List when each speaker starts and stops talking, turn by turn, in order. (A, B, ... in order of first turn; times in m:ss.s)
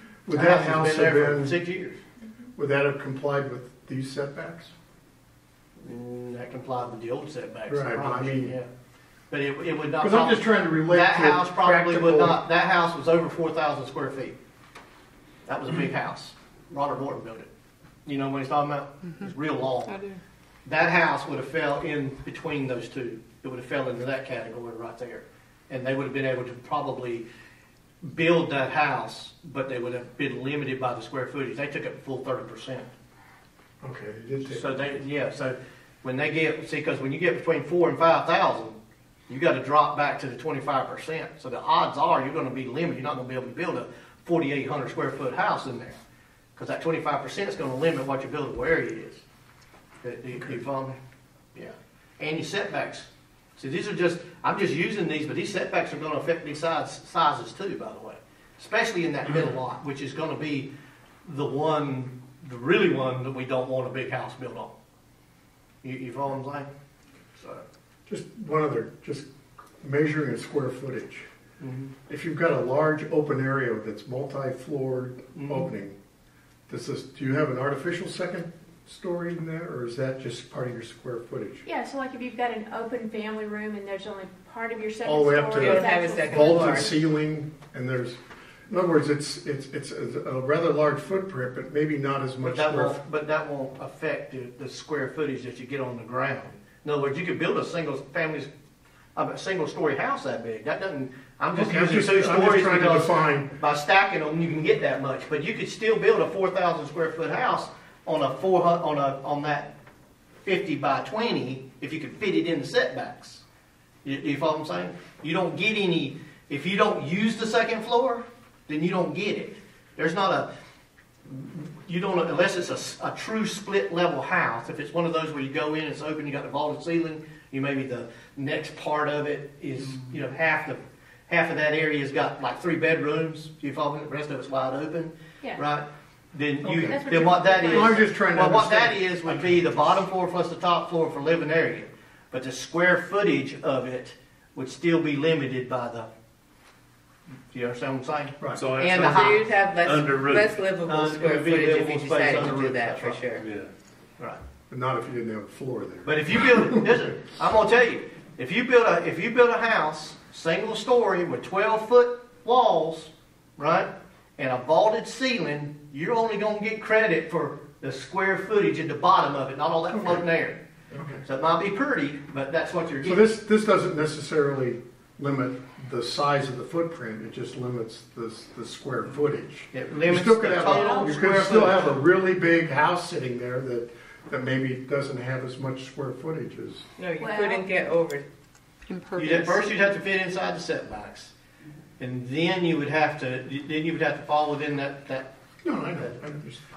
0:00.2-0:01.6 A
0:00.3-0:02.0 B
0:02.6-0:04.7 A
0:05.8-0:08.7 B
0:07.7-0:08.6 A
0:09.3-0:14.4 B
0:10.0-0:12.4 A
0:15.5-0:17.5 B
0:18.1-0:20.0 B
0:19.9-0:20.2 C
0:20.7-0:27.3 B
0:28.0-0:32.9 B
0:33.8-0:34.8 A
0:34.4-0:38.8 B
0:39.3-0:46.0 B
0:46.6-0:49.2 B
0:50.0-0:51.0 B
0:51.6-1:00.7 B
1:01.2-1:04.7 B
1:05.8-1:06.7 B
1:07.4-1:07.6 B
1:08.1-1:09.3 A
1:09.8-1:11.2 A
1:11.6-1:11.9 B
1:12.1-1:16.0 A
1:15.3-1:15.7 B
1:16.7-1:21.6 A
1:21.6-1:26.8 D
1:25.0-1:33.0 A
1:25.6-1:26.9 C
1:32.4-1:38.5 B
1:39.2-1:49.7 B
1:41.5-1:43.5 A
1:50.4-1:53.4 B
1:54.0-2:00.5 B
2:01.3-2:26.1 B
2:16.6-2:17.0 A
2:16.8-2:18.0 D
2:17.6-2:19.8 A
2:27.5-2:29.4 B
2:28.4-2:28.7 A
2:28.6-2:30.6 E
2:28.8-2:33.4 C
2:30.9-2:33.2 B
2:33.4-2:33.7 E
2:34.7-2:37.0 A
2:36.0-2:50.6 B
2:49.9-2:50.2 A
2:50.9-2:51.2 A
2:51.2-2:53.3 B
2:53.0-3:06.8 A
2:59.7-3:02.0 B
3:00.7-3:01.1 D
3:07.0-3:08.3 C
3:07.2-3:07.7 D
3:08.9-3:09.5 D
3:09.2-3:11.3 B
3:12.0-3:15.3 B
3:15.6-3:16.6 A